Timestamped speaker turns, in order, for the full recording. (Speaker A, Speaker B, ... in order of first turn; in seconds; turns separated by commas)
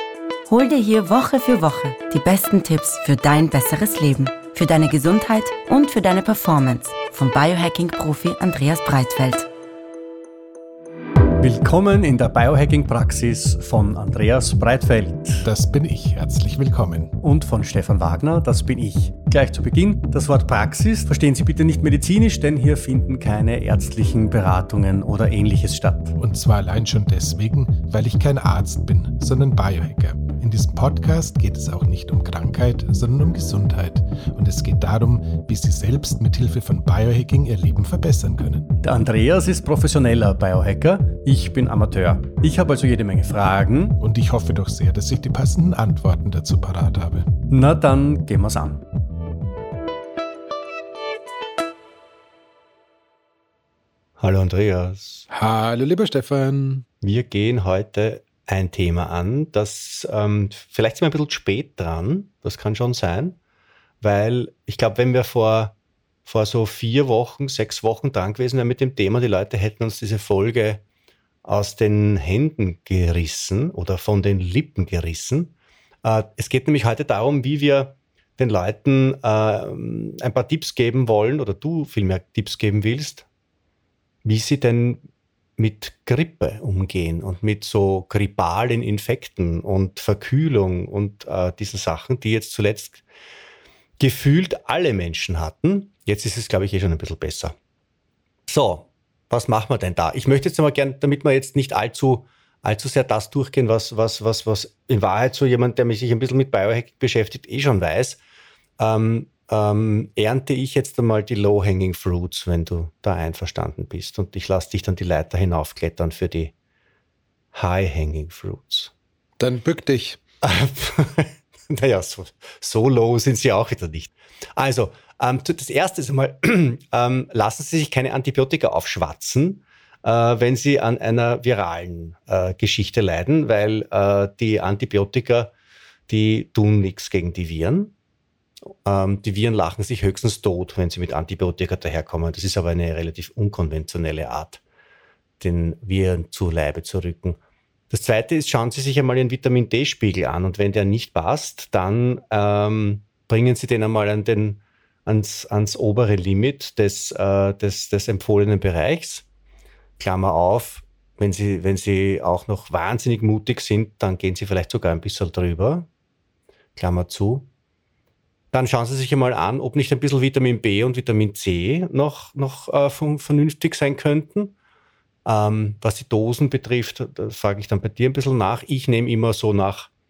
Speaker A: 0.5-9.5, Speaker B: 11.4-15.5, Speaker C: 15.4-17.1, Speaker B: 17.2-26.2, Speaker C: 26.2-38.7, Speaker B: 38.8-44.0, Speaker C: 44.0-47.3, Speaker B: 47.5-48.8, Speaker B: 54.2-55.2, Speaker C: 55.3-56.8, Speaker B: 57.0-63.4, Speaker B: 64.0-65.7, Speaker B: 66.2-70.8, Speaker B: 71.4-83.2, Speaker B: 84.2-85.0, Speaker B: 85.6-93.0, Speaker B: 94.0-97.5, Speaker B: 98.5-108.2, Speaker B: 108.8-116.5, Speaker B: 117.5-118.9, Speaker C: 119.4-120.2, Speaker B: 120.4-135.5, Speaker B: 136.1-137.9, Speaker B: 138.7-144.6, Speaker B: 145.4-147.4, Speaker B: 147.9-159.2, Speaker B: 160.0-165.9, Speaker B: 166.8-167.5, Speaker B: 168.5-174.5, Speaker B: 175.2-179.9